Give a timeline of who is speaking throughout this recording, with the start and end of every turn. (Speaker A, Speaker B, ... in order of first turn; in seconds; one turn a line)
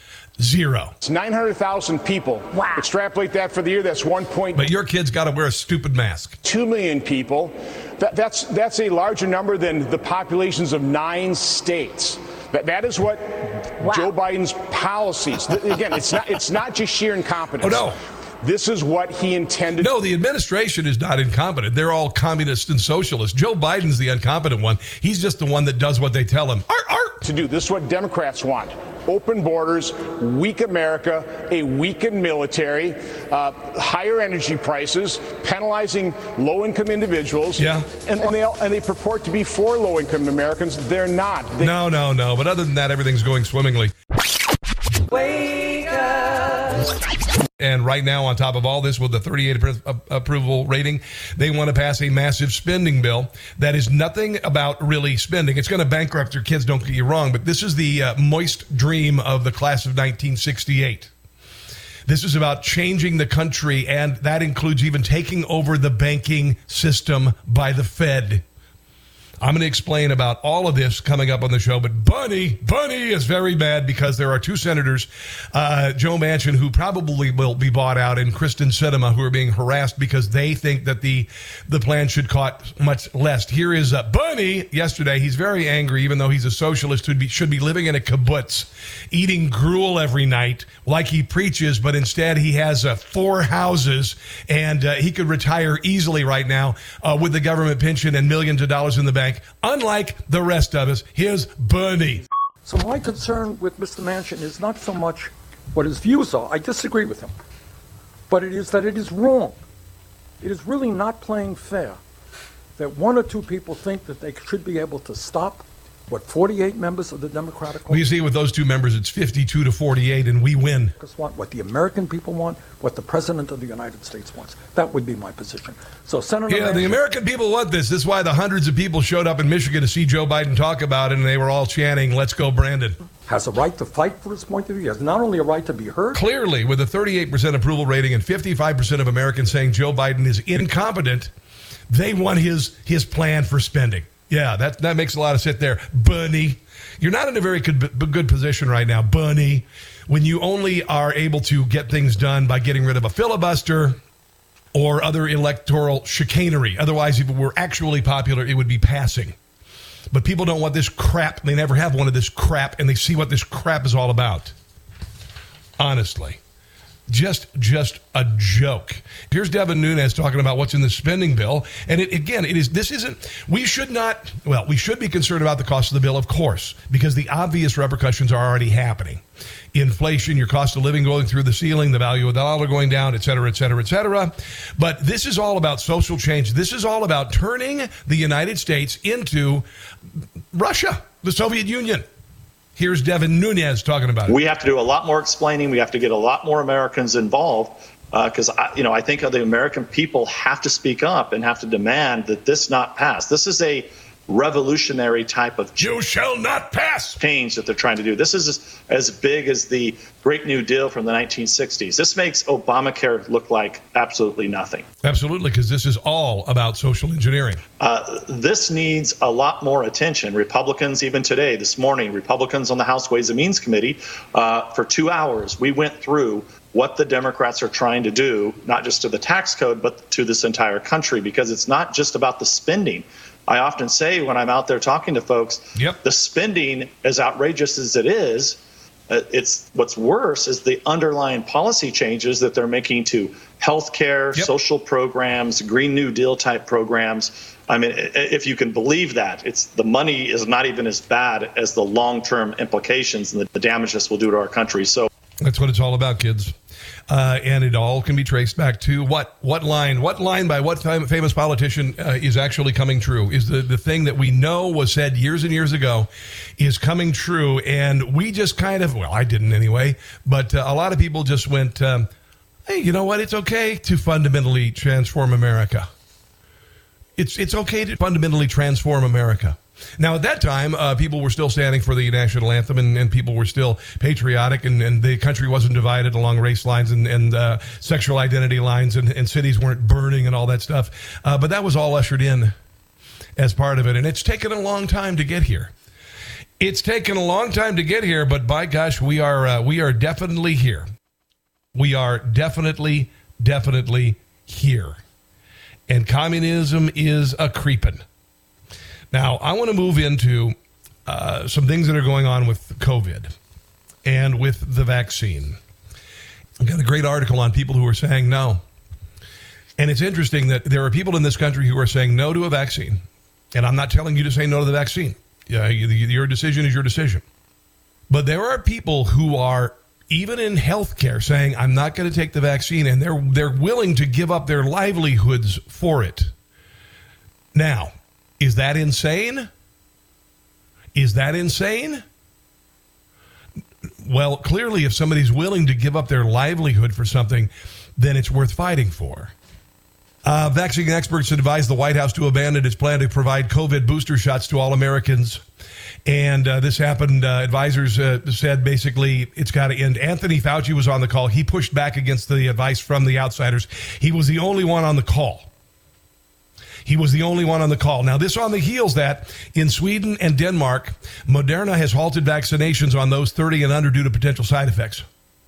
Speaker A: 0.4-0.9
Speaker B: 1.0-4.7
Speaker A: 4.5-6.4
Speaker B: 6.4-17.9
Speaker A: 17.6-18.0
Speaker B: 18.4-19.9
Speaker A: 19.8-27.2
Speaker B: 27.2-41.7
Speaker A: 37.6-37.9
Speaker A: 41.6-43.9
Speaker A: 47.6-61.1
Speaker A: 62.1-68.4
Speaker A: 69.4-102.2
Speaker C: 102.7-107.3
Speaker C: 108.3-109.6
Speaker C: 110.4-112.0
Speaker C: 112.8-118.1
Speaker A: 117.9-120.9
Speaker C: 121.0-127.0
Speaker A: 126.5-133.0
Speaker C: 133.3-136.2
Speaker A: 136.1-141.3
Speaker A: 141.9-154.0
Speaker A: 154.7-159.3
Speaker A: 160.1-164.5
Speaker A: 165.8-166.4
Speaker A: 167.1-179.2
Speaker A: 179.7-189.6
Speaker A: 190.5-192.0
Speaker A: 192.8-194.4
Speaker D: 194.3-205.9
Speaker A: 205.8-207.2
Speaker D: 207.2-214.8
Speaker A: 215.0-217.6
Speaker D: 217.8-255.1
Speaker A: 235.8-236.0
Speaker A: 255.4-256.5
Speaker A: 257.1-272.1
Speaker A: 272.7-275.9
Speaker A: 277.2-292.5
Speaker A: 293.4-295.7
Speaker A: 296.6-300.8
Speaker A: 301.7-305.0
Speaker A: 305.9-308.0
Speaker A: 309.1-313.3
Speaker A: 314.0-315.6
Speaker A: 316.6-318.6
Speaker A: 319.8-323.0
Speaker A: 323.5-327.2
Speaker A: 328.1-336.3
Speaker A: 337.5-339.5
Speaker A: 340.9-342.0
Speaker A: 344.0-349.3
Speaker A: 350.2-355.4
Speaker A: 356.1-365.5
Speaker A: 366.8-375.0